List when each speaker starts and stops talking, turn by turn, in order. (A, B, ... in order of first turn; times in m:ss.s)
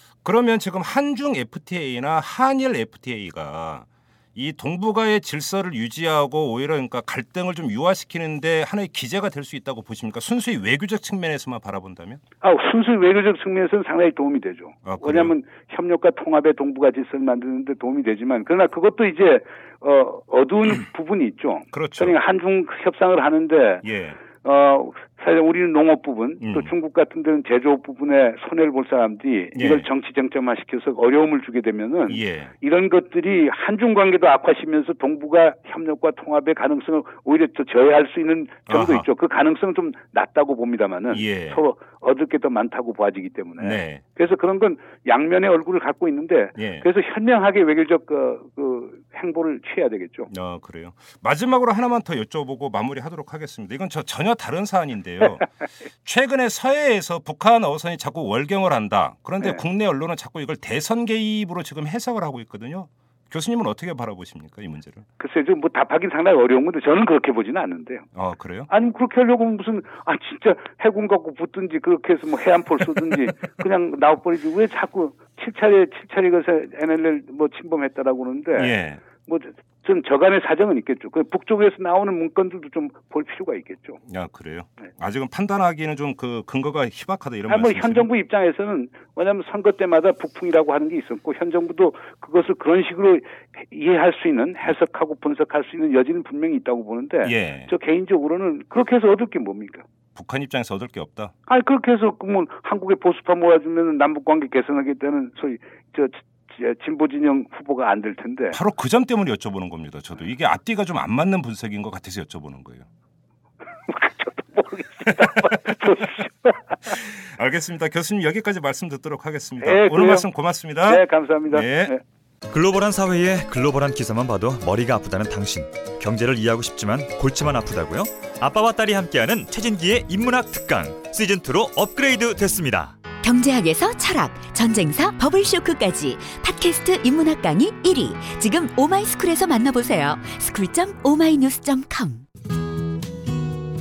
0:00.2-0:12.2 A
0:12.4-0:23.8 B
0:14.8-0:15.4 A
0:21.7-0:22.2 A
0:23.8-0:24.2 A
0:24.4-0:50.3 B
0:26.4-0:26.7 A
0:29.6-0:29.9 A
0:32.1-0:32.5 A
0:38.7-0:39.1 A
0:41.1-0:41.6 A
0:43.6-0:44.0 A
0:46.6-0:46.9 A
0:50.3-0:55.5 A
0:56.0-1:05.0 A
1:05.2-1:08.1 B
1:08.2-1:08.7 A
1:08.7-1:24.0 B
1:18.6-1:19.0 A
1:24.1-1:28.1 A
1:27.5-1:39.8 B
1:37.2-1:37.7 A
1:40.2-1:41.3 A
1:41.5-1:48.6 B
1:48.5-1:52.9 A
1:53.9-1:56.9 B
1:55.1-1:55.7 A
1:56.8-2:01.9 A
1:59.6-2:00.3 B
2:00.8-2:02.0 B
2:02.5-2:13.0 C
2:13.2-2:22.2 D